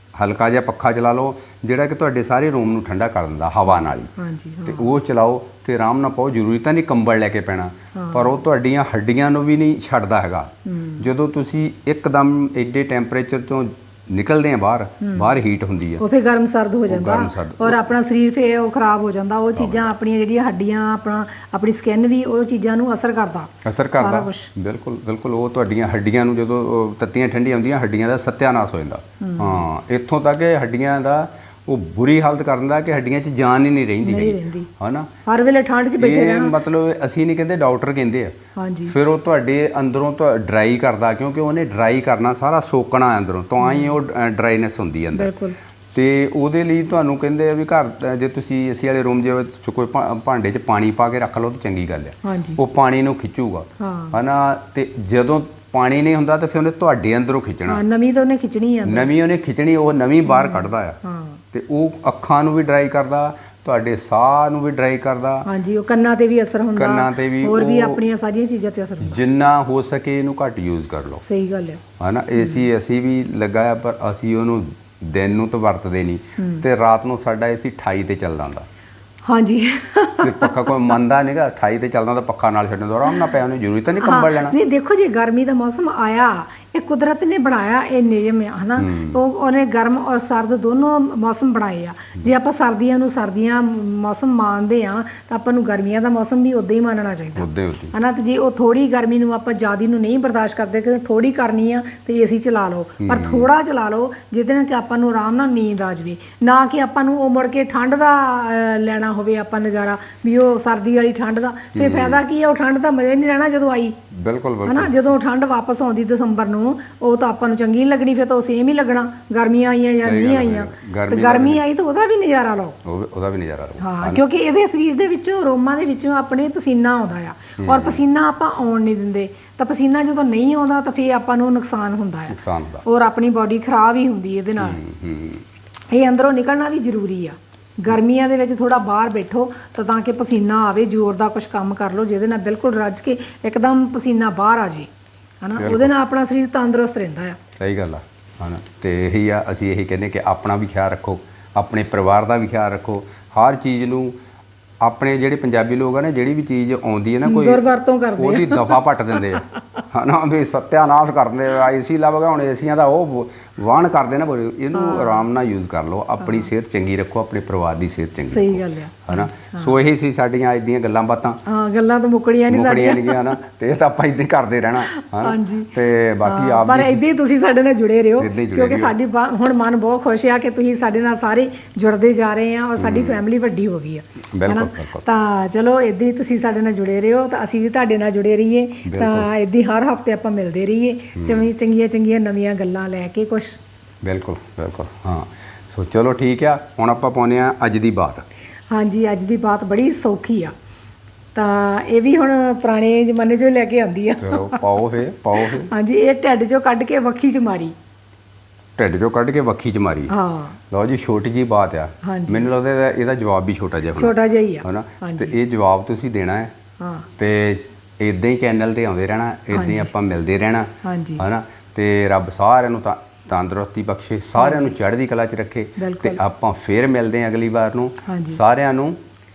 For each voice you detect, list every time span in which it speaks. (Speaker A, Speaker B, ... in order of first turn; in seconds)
Speaker A: 0.1-4.1, 4.7-16.0, 16.9-17.8, 19.6-19.9, 23.6-35.1, 36.0-38.4, 38.9-45.3, 45.9-57.8, 58.9-61.0, 61.5-65.5, 66.8-68.0, 69.0-71.2, 72.0-78.7, 80.2-84.6, 88.8-89.2, 97.4-98.0, 103.0-103.5, 111.7-112.2, 114.1-115.0, 120.0-121.6, 122.8-124.2, 127.6-128.0, 132.3-132.8, 134.6-135.4, 145.6-145.9, 147.6-154.1, 154.8-171.4, 172.5-177.0, 178.2-178.9, 182.8-183.2, 184.3-185.0, 188.8-189.3, 191.2-191.4, 194.0-198.2, 204.2-205.7, 208.8-210.1, 210.7-216.5, 217.2-229.0
Speaker B: 4.2-4.9, 8.0-8.4, 10.7-11.1, 15.0-15.3, 16.0-24.5, 29.2-29.6, 34.0-34.7, 35.3-36.6, 38.6-39.0, 43.6-44.0, 45.1-45.6, 52.2-52.6, 53.8-54.2, 57.7-59.1, 60.3-61.4, 65.5-69.2, 71.2-71.8, 76.4-76.6, 79.3-80.9, 84.0-114.0, 114.7-122.8, 123.8-134.8, 135.9-144.9, 145.4-147.4, 157.2-159.4, 164.8-165.3, 166.2-166.5, 168.2-169.8, 171.5-173.4, 174.8-175.7, 176.2-193.6, 198.7-200.5, 201.3-204.7, 205.4-207.8, 210.1-210.6, 212.0-212.5, 213.9-215.3, 216.8-217.1, 219.5-219.9, 220.8-221.2, 224.4-224.7, 225.8-226.2, 228.1-228.4